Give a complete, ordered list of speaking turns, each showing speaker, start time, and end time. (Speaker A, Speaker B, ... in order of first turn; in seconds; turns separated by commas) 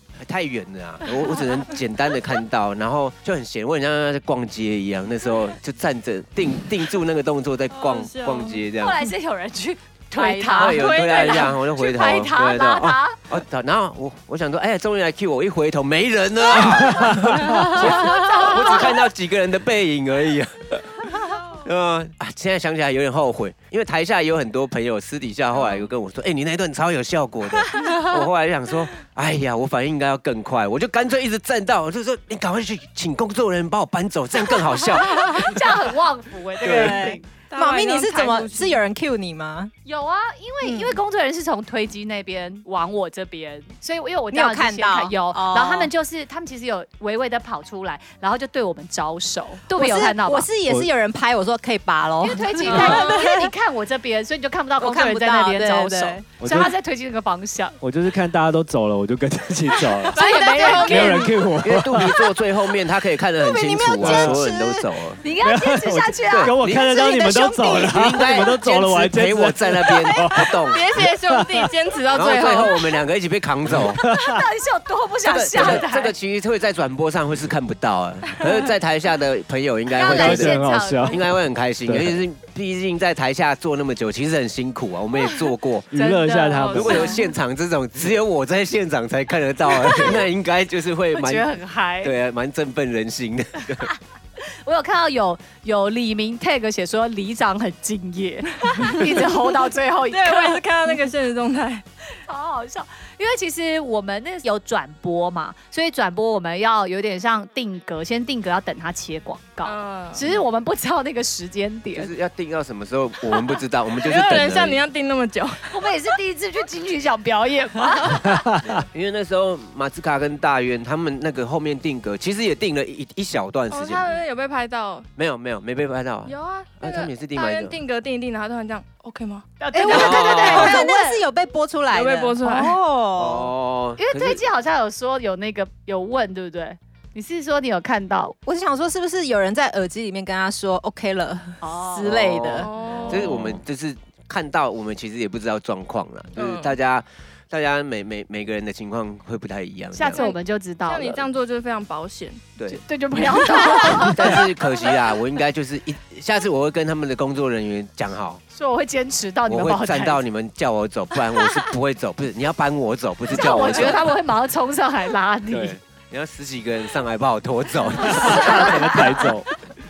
Speaker A: 0.2-9.0, Speaker B: 7.7-8.7, Speaker C: 8.7-13.2, Speaker D: 10.2-10.7, Speaker B: 10.5-11.6, Speaker A: 10.5-35.6, Speaker C: 16.5-19.0, Speaker B: 25.6-25.9, Speaker D: 27.8-28.1, Speaker C: 35.0-37.3, Speaker D: 36.6-39.7, Speaker A: 36.6-37.1, Speaker B: 37.5-38.8, Speaker C: 39.9-50.5, Speaker D: 40.6-41.0, Speaker D: 44.3-45.9, Speaker D: 49.7-53.5, Speaker C: 52.2-57.8, Speaker B: 52.7-53.2, Speaker D: 54.8-56.3, Speaker E: 56.4-56.8, Speaker E: 57.8-62.3, Speaker B: 60.1-61.4, Speaker C: 60.1-61.3, Speaker D: 60.4-60.7, Speaker A: 61.6-65.2, Speaker D: 63.4-64.9, Speaker C: 64.0-64.4, Speaker C: 65.2-68.0, Speaker E: 65.4-71.7, Speaker A: 66.3-70.8, Speaker B: 70.7-72.9, Speaker A: 72.1-74.0, Speaker E: 73.7-74.5, Speaker C: 74.1-76.1, Speaker A: 75.2-85.9, Speaker C: 79.9-81.3, Speaker E: 80.0-81.3, Speaker E: 81.8-82.2, Speaker E: 85.9-87.1, Speaker C: 85.9-87.2, Speaker B: 86.5-87.2, Speaker A: 86.7-93.9, Speaker C: 89.7-90.2, Speaker C: 91.1-92.1, Speaker C: 93.8-100.6, Speaker B: 98.7-99.4, Speaker B: 100.1-101.8, Speaker C: 102.2-112.1, Speaker B: 109.6-110.3, Speaker A: 112.0-114.8, Speaker B: 114.0-115.8, Speaker C: 115.7-118.5, Speaker A: 118.6-124.1, Speaker B: 123.7-125.1, Speaker A: 125.2-127.8, Speaker B: 126.2-129.5, Speaker C: 129.6-131.2, Speaker D: 129.7-133.5, Speaker A: 129.9-130.8, Speaker B: 131.9-132.8, Speaker A: 133.2-134.4, Speaker C: 134.0-138.4, Speaker D: 138.5-142.7, Speaker C: 141.6-142.1, Speaker A: 142.0-150.3, Speaker B: 142.6-143.3, Speaker E: 143.1-143.6, Speaker B: 146.4-146.8, Speaker C: 149.9-151.3, Speaker B: 150.1-152.5, Speaker A: 152.6-152.8, Speaker C: 152.7-154.9, Speaker A: 154.0-158.4, Speaker C: 158.5-160.2, Speaker A: 159.5-164.0, Speaker C: 163.3-165.8, Speaker B: 163.4-164.1, Speaker A: 165.5-168.7, Speaker E: 168.0-169.5, Speaker C: 168.0-169.4